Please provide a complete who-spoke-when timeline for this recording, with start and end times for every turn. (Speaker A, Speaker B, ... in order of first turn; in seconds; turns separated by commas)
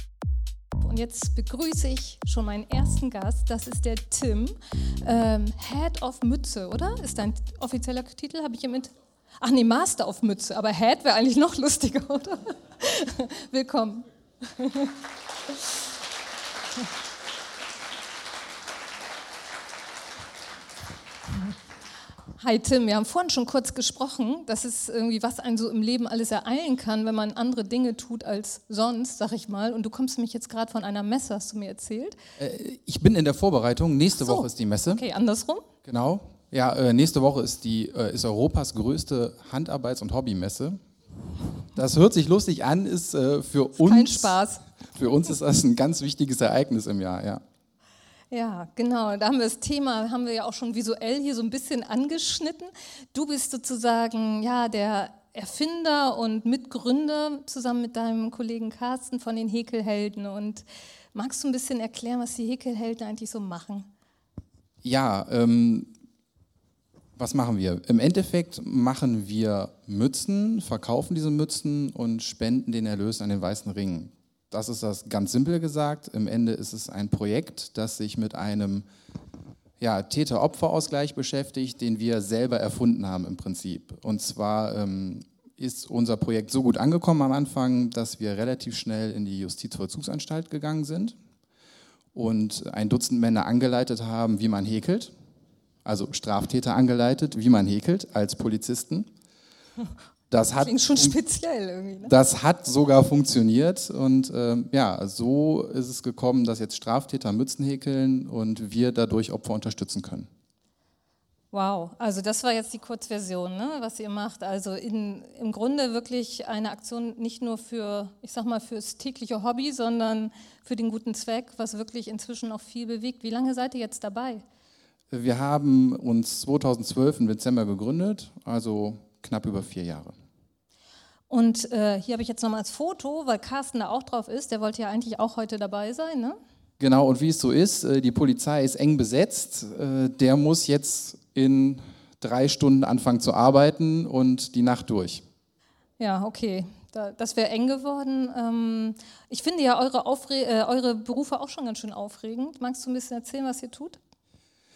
Speaker A: 0.8-14.9, Speaker A: 22.4-32.2, Speaker B: 32.4-35.0, Speaker A: 34.2-35.7, Speaker B: 35.8-40.8, Speaker B: 41.7-44.4, Speaker A: 43.8-44.6, Speaker B: 44.9-47.4, Speaker A: 48.3-63.9, Speaker B: 64.8-65.9, Speaker B: 67.2-78.9, Speaker B: 79.8-91.2, Speaker B: 92.1-95.1, Speaker B: 95.8-99.1, Speaker B: 100.3-101.2, Speaker A: 100.6-102.1, Speaker B: 102.0-110.3, Speaker A: 111.5-124.4, Speaker B: 125.1-130.1, Speaker A: 131.3-136.4, Speaker B: 136.8-145.2, Speaker A: 146.0-154.0